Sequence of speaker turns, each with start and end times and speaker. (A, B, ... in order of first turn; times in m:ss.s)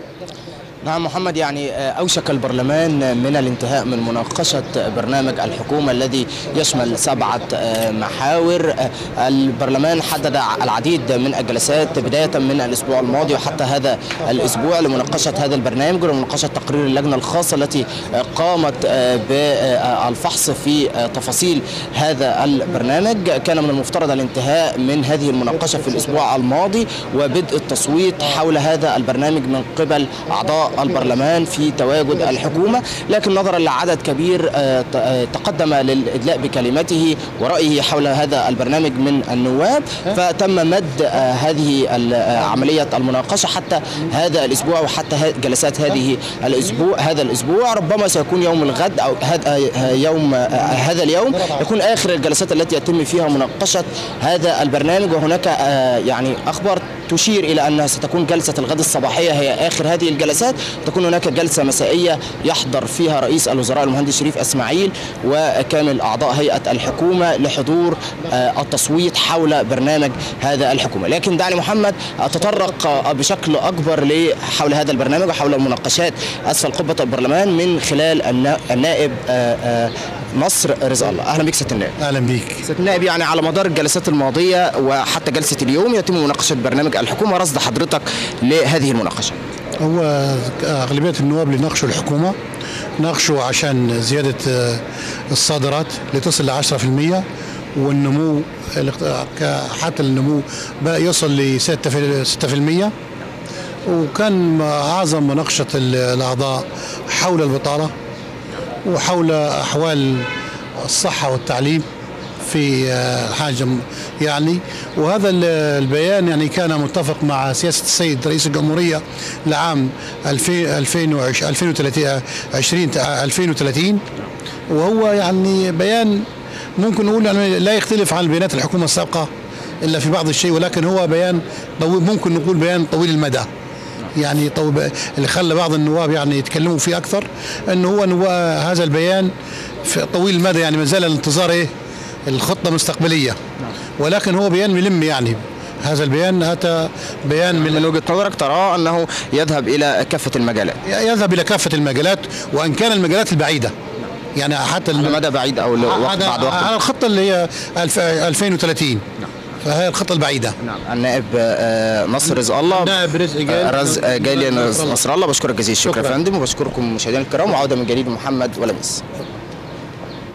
0:00.8-1:21.9 A
1:22.0-1:22.6 B
1:22.7-1:29.4 A
1:29.8-1:32.3 B
1:33.0-1:34.8 B
1:35.3-1:37.2 B
1:37.8-1:42.9 B
1:43.9-1:47.9 B
1:48.8-1:50.3 B
1:50.8-1:51.8 B
1:52.4-2:04.0 B
2:04.7-2:06.2 B
2:06.8-2:09.3 B
2:09.8-2:13.5 B
2:14.1-2:19.3 B
2:19.8-2:21.7 B
2:22.3-2:23.4 B
2:24.0-2:27.7 B
2:27.6-2:30.8 A
2:30.8-2:33.7 B
2:34.4-2:35.2 B
2:34.9-2:36.7 A
2:35.8-2:39.0 B
2:39.6-2:40.5 B
2:40.6-2:49.0 A
2:42.7-2:44.9 B
2:45.9-2:46.1 B